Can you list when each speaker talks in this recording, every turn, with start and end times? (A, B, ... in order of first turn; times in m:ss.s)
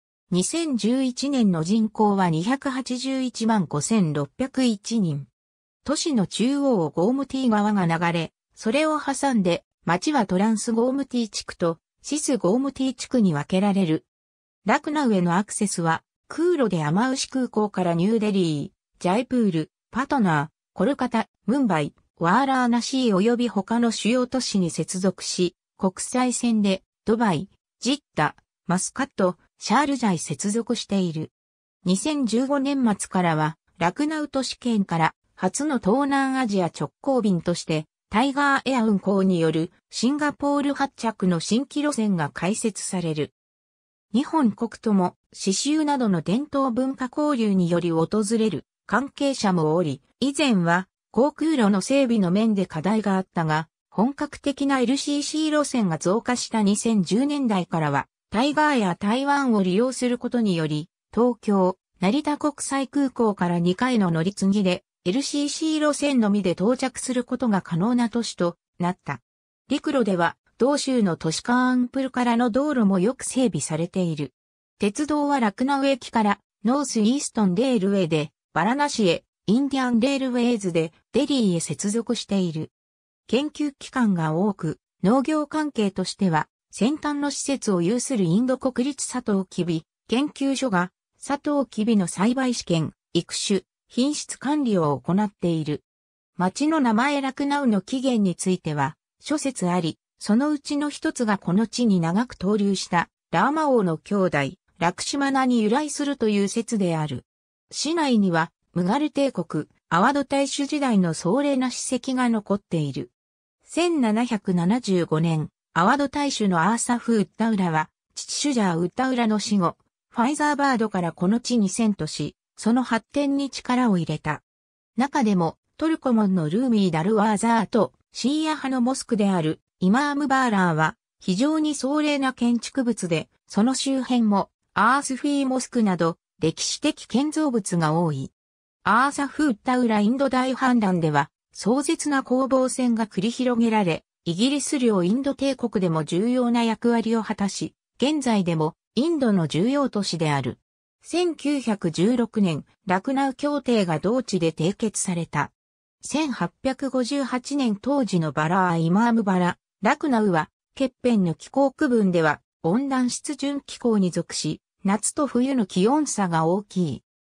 0:00.3-0:05.3 A
0:05.8-0:14.1 A
0:14.6-0:31.3 A
0:31.8-0:43.3 A
0:44.1-1:22.7 A
1:23.3-1:35.8 A
1:36.4-1:53.1 A
1:53.6-2:04.4 A
2:05.0-2:18.3 A
2:18.8-2:47.0 A